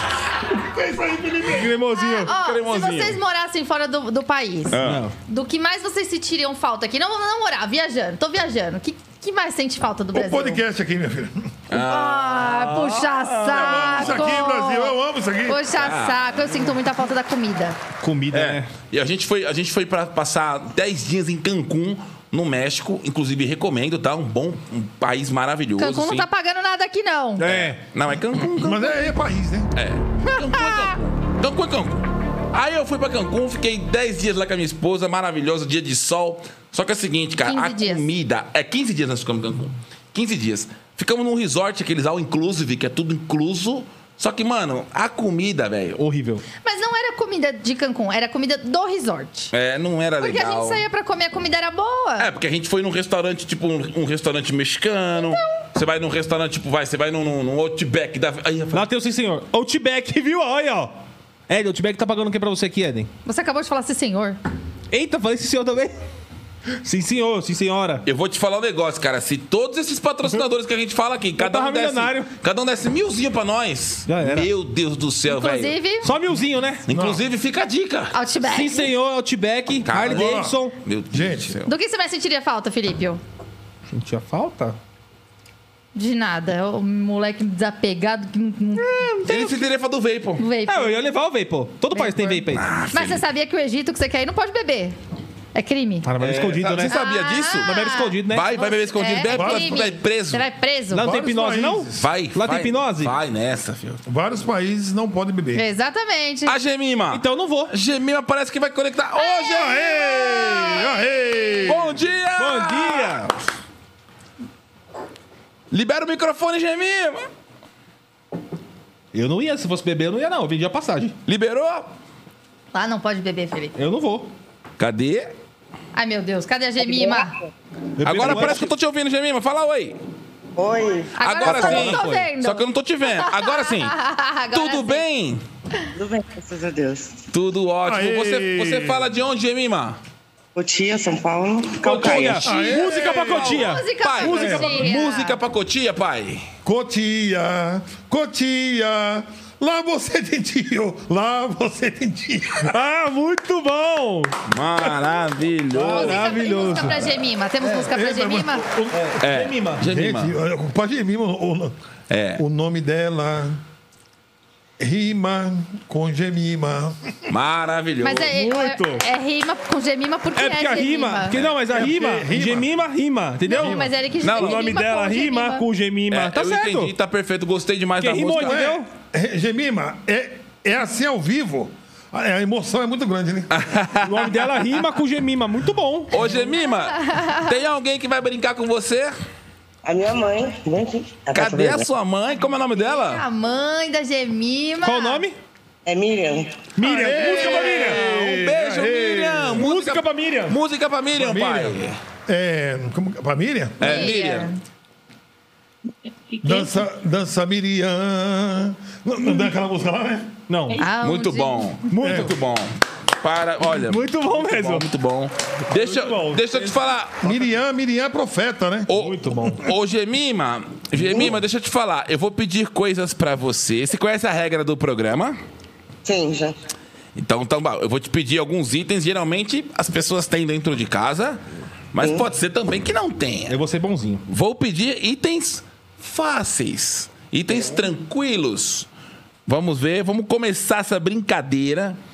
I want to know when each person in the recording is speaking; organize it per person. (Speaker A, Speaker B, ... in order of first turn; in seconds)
Speaker A: 0.5-1.8, 10.1-11.5, 13.5-15.6, 28.6-29.7, 76.9-77.2, 80.0-80.6, 81.1-81.5, 99.3-99.8, 101.0-102.0, 104.0-105.6, 109.5-111.9, 137.8-139.1, 142.4-143.6, 146.6-152.8, 157.7-159.2, 159.8-161.7, 162.4-163.6, 164.8-167.0, 171.7-172.7, 173.6-173.9, 178.4-183.6, 196.8-199.7, 201.1-204.0, 206.4-210.4, 212.0-212.3, 217.2-218.9
Speaker B: 1.5-2.3, 4.8-5.1, 12.5-13.0, 18.0-18.7, 27.4-27.8, 46.0-46.4, 58.7-60.9, 61.5-63.1, 64.9-66.0, 66.8-68.0, 71.4-72.3, 74.1-74.5, 76.0-76.8, 78.4-80.8, 83.9-84.8, 88.8-89.6, 90.7-92.7, 96.0-97.0, 97.6-98.5, 100.9-103.1, 107.1-107.7, 112.4-113.3, 119.1-121.1, 123.8-124.3, 128.0-128.7, 141.8-144.9, 152.6-154.3, 155.7-157.1, 158.9-159.8, 168.3-169.0, 170.3-176.9, 178.0-178.9, 184.0-186.1, 194.8-195.4, 196.8-198.0, 199.5-200.6, 210.5-210.8, 211.9-212.3, 213.6-214.9, 215.7-216.8, 218.9-219.7, 233.5-234.2
Speaker C: 1.9-10.6, 11.7-14.9, 15.5-17.8, 25.8-27.4, 30.2-30.9, 37.4-38.1, 46.6-49.5, 50.2-52.3, 63.2-64.4, 75.3-76.1, 78.1-78.9, 81.7-83.2, 85.9-89.1, 90.4-91.0, 91.9-95.0, 95.5-96.1, 96.8-101.1, 105.5-106.5, 109.2-111.7, 122.7-123.8, 125.9-127.3, 131.2-135.0, 142.5-145.4, 155.9-158.7, 168.0-171.3, 173.4-175.7, 186.6-187.5, 192.8-195.2, 203.8-204.6, 210.8-211.7
Speaker D: 2.3-3.2, 4.7-5.0, 11.7-14.4, 15.7-16.4, 18.3-26.2, 27.4-28.9, 29.7-46.0, 49.5-50.8, 52.2-58.9, 68.0-75.8, 76.9-78.1, 79.8-81.7, 89.2-90.5, 92.5-93.2, 96.2-97.7, 98.3-100.4, 102.0-104.0, 106.5-110.6, 111.7-113.3, 115.7-117.3, 121.2-121.9, 124.8-125.3, 128.0-130.0, 131.2-133.9, 134.5-135.4, 137.3-140.0, 142.0-142.6, 143.3-146.5, 154.5-156.8, 159.2-160.3, 162.1-162.4, 167.3-168.3, 171.3-171.7, 174.2-174.7, 176.1-178.6, 183.5-184.5, 186.1-189.1, 191.3-193.2, 197.1-202.0, 203.8-204.5, 211.0-217.3, 218.9-225.4, 227.2-231.4, 231.9-233.6, 234.3-238.9, 239.5-242.0
Speaker E: 126.8-127.5, 130.6-132.0, 135.9-137.2, 140.5-142.5, 189.8-191.9, 195.8-196.7, 226.0-226.6, 232.0-232.3, 237.5-237.8